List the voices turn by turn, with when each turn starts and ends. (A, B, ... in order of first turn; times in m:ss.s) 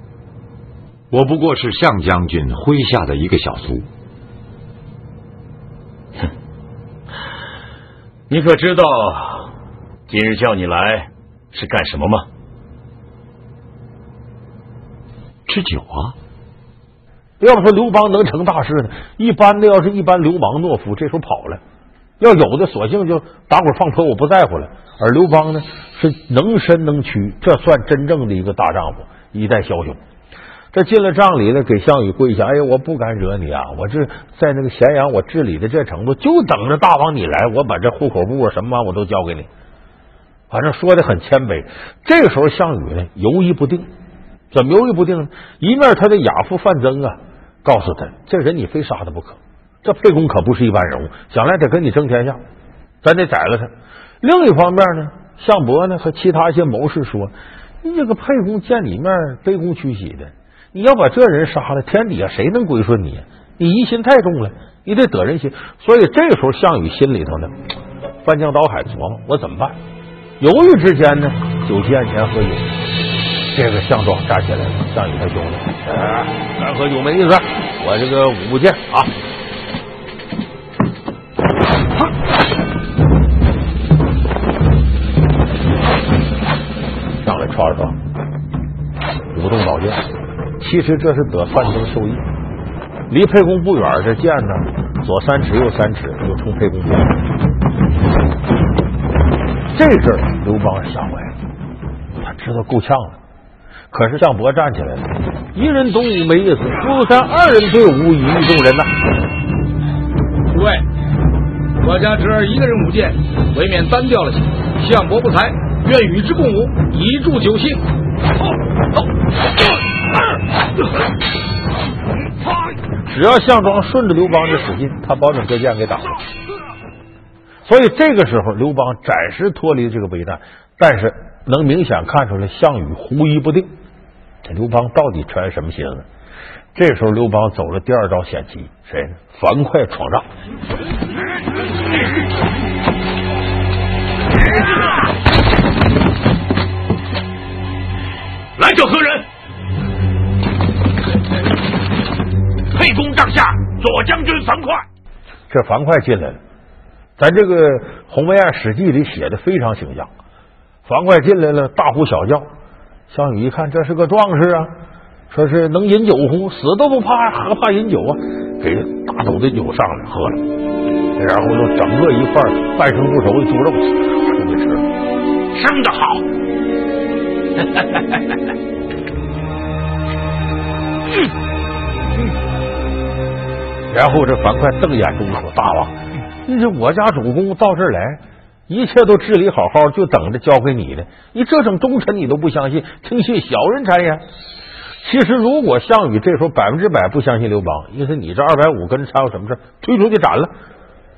0:01.1-0:03.8 A
0:08.3-0:09.5 B
0:10.1-0:12.3 B
0:15.4-0:16.1 A
0:17.4-0:21.6 C
0:22.2-0:30.0 C
0:30.7-0:39.5 C
0:40.5-0:43.9 C
0:44.5-0:52.4 C
0:53.0-1:07.5 C
1:08.2-1:09.8 C
1:10.4-1:12.7 C
1:13.5-1:19.1 C
1:27.2-1:28.0 C
1:29.3-1:30.0 C
1:30.6-1:32.2 C
1:33.1-1:37.2 C
1:39.7-1:41.3 C
1:42.2-1:43.2 C
1:43.9-1:48.9 C
1:50.5-1:50.8 D
1:51.8-1:57.8 D
2:03.1-2:06.2 C
2:07.6-2:13.7 C
2:14.4-2:16.0 C
2:16.7-2:20.2 C
2:28.6-2:29.3 E
2:32.7-2:34.8 E
2:35.5-2:36.4 C
2:37.2-2:40.1 C
2:40.8-2:42.5 C
2:43.1-2:44.7 C
2:45.3-2:50.5 C
2:51.2-2:54.8 C
2:55.5-2:56.2 E
3:03.9-3:14.2 C
3:15.0-3:20.5 C